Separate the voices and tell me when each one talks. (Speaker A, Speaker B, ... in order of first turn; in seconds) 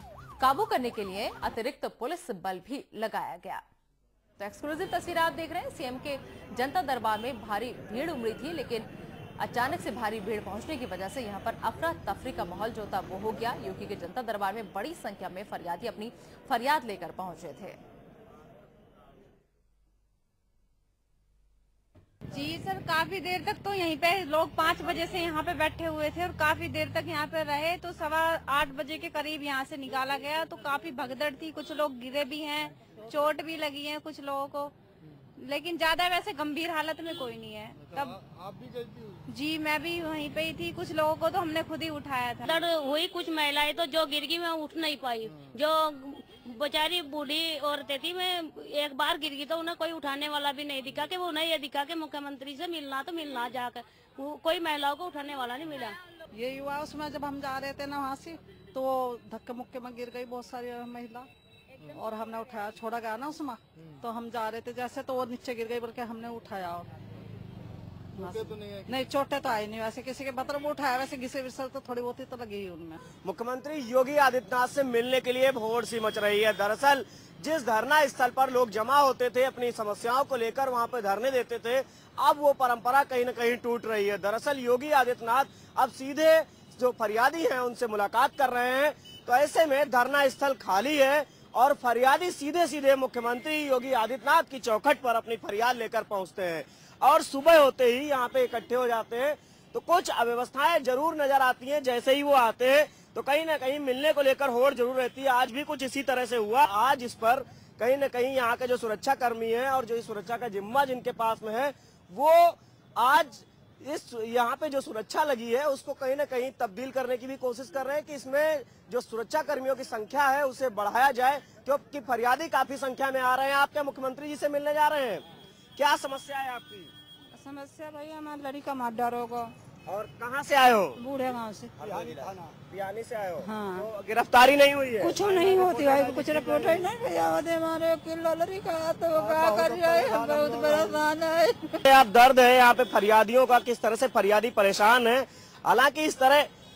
Speaker A: 0.4-3.6, 4.4-8.9, 9.4-17.8
Speaker B: 22.3-34.7, 35.4-38.2, 39.3-42.4, 127.9-128.3
Speaker C: 37.8-39.2, 68.2-69.0, 131.8-132.5, 135.2-136.8, 139.1-141.1
Speaker D: 42.4-56.0
Speaker E: 56.3-61.3, 61.9-66.9, 68.1-73.0, 128.5-129.3, 131.0-131.7, 133.4-133.8, 135.0-141.8
Speaker F: 73.2-125.2, 125.8-126.9, 129.9-131.0, 131.8-135.3, 141.8-146.5